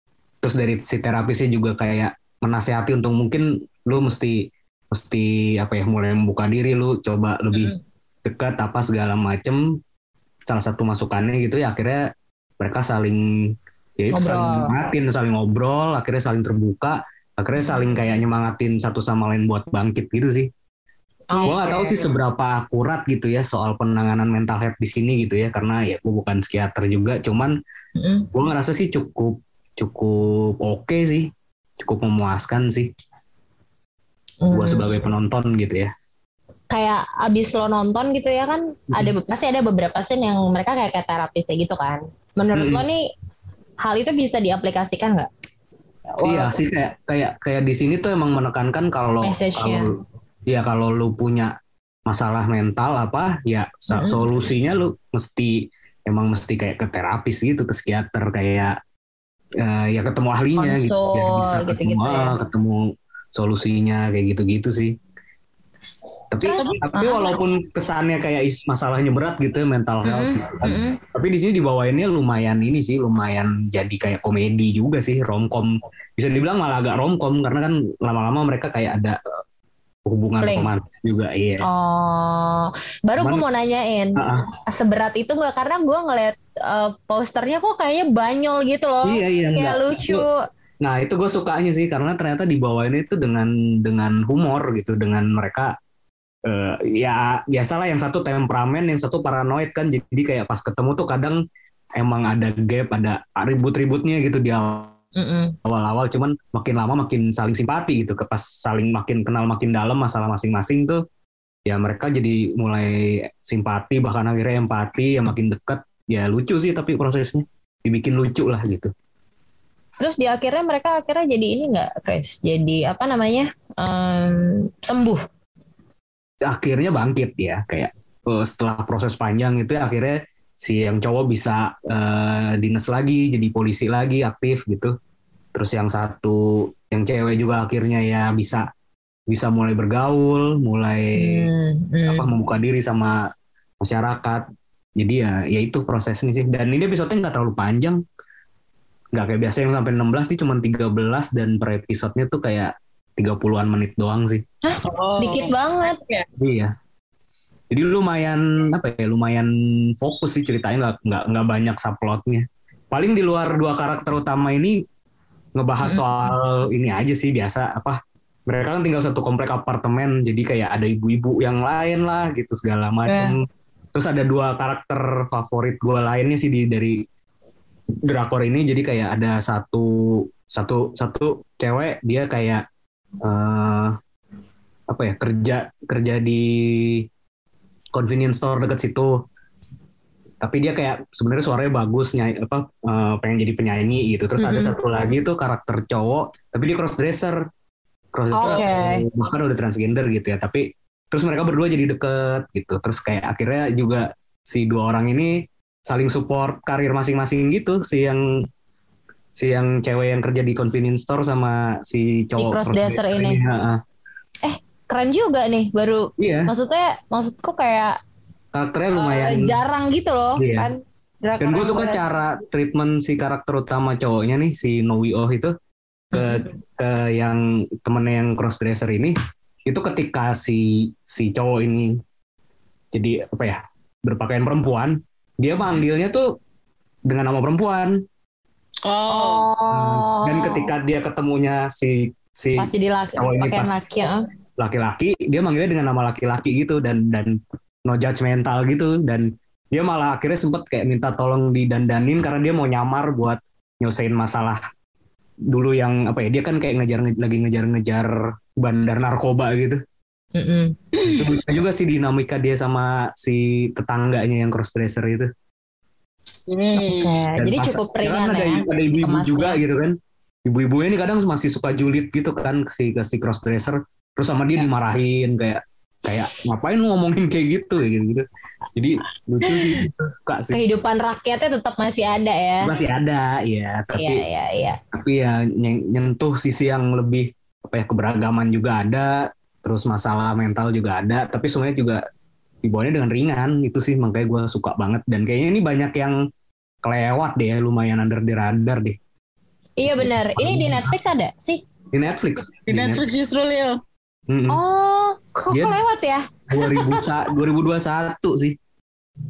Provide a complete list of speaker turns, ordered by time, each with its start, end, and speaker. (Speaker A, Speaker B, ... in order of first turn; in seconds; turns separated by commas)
Speaker A: 0.4-7.7, Speaker A: 8.2-9.8, Speaker A: 10.5-12.1, Speaker A: 12.6-20.5, Speaker B: 14.1-14.7, Speaker B: 17.6-17.9, Speaker B: 21.3-22.1, Speaker A: 21.4-27.6, Speaker B: 28.0-28.3, Speaker A: 28.3-32.9, Speaker B: 34.4-34.9, Speaker A: 34.5-35.9, Speaker B: 36.7-43.0, Speaker A: 42.5-42.8, Speaker B: 43.8-45.3, Speaker B: 46.1-46.5, Speaker A: 46.2-49.9, Speaker B: 49.2-49.9, Speaker A: 50.5-51.5, Speaker A: 52.1-58.7, Speaker B: 53.9-54.2, Speaker A: 59.6-64.9, Speaker B: 60.6-62.3, Speaker A: 66.3-79.2, Speaker B: 66.4-67.3, Speaker C: 66.5-66.9, Speaker B: 70.0-71.0, Speaker A: 80.1-81.6, Speaker B: 80.4-80.7, Speaker B: 81.6-84.2, Speaker A: 83.2-83.4, Speaker A: 84.2-84.4, Speaker B: 84.7-90.3, Speaker A: 89.0-90.2, Speaker A: 90.8-95.7, Speaker A: 96.5-101.4, Speaker A: 102.0-104.9, Speaker B: 105.2-105.5, Speaker A: 105.6-111.0, Speaker A: 111.7-118.9, Speaker B: 120.0-125.2, Speaker A: 126.4-134.9, Speaker A: 135.5-138.7, Speaker A: 139.3-141.5, Speaker B: 141.2-142.2, Speaker A: 142.1-143.2, Speaker A: 143.8-144.4, Speaker A: 145.0-148.0, Speaker A: 149.1-154.4, Speaker B: 154.6-156.0, Speaker C: 154.8-156.2, Speaker A: 156.4-156.7, Speaker A: 157.7-164.8, Speaker A: 165.6-173.4, Speaker B: 165.8-166.1, Speaker B: 173.1-173.3, Speaker A: 173.9-177.0, Speaker A: 178.1-182.6, Speaker A: 183.2-183.9, Speaker A: 184.9-187.1, Speaker A: 187.9-189.2, Speaker A: 190.4-197.4, Speaker B: 194.4-194.7, Speaker A: 198.1-208.5, Speaker B: 198.3-199.0, Speaker A: 209.3-213.8, Speaker B: 212.4-213.4, Speaker B: 214.4-218.0, Speaker A: 216.2-216.5, Speaker A: 218.5-219.6, Speaker B: 218.9-222.0, Speaker A: 220.4-220.7, Speaker A: 221.4-225.5, Speaker A: 226.1-229.1, Speaker B: 226.1-226.4, Speaker A: 229.7-232.0, Speaker A: 232.9-236.3, Speaker A: 237.1-238.0, Speaker C: 238.8-239.4, Speaker B: 239.1-240.7, Speaker A: 239.7-243.7, Speaker B: 242.6-244.2, Speaker A: 244.6-254.6, Speaker A: 255.5-259.8, Speaker B: 260.3-260.7, Speaker A: 261.0-265.3, Speaker C: 266.5-267.1, Speaker B: 266.8-269.6, Speaker A: 267.4-280.6, Speaker B: 279.4-279.7, Speaker B: 280.5-282.7, Speaker A: 282.6-284.2, Speaker B: 283.9-284.8, Speaker A: 284.9-292.0, Speaker A: 292.6-296.2, Speaker A: 296.8-299.0, Speaker B: 299.8-301.6, Speaker A: 299.9-300.9, Speaker A: 301.9-303.0, Speaker C: 302.7-303.8, Speaker A: 304.3-304.6, Speaker B: 304.5-307.0, Speaker A: 305.5-305.8, Speaker A: 306.5-308.6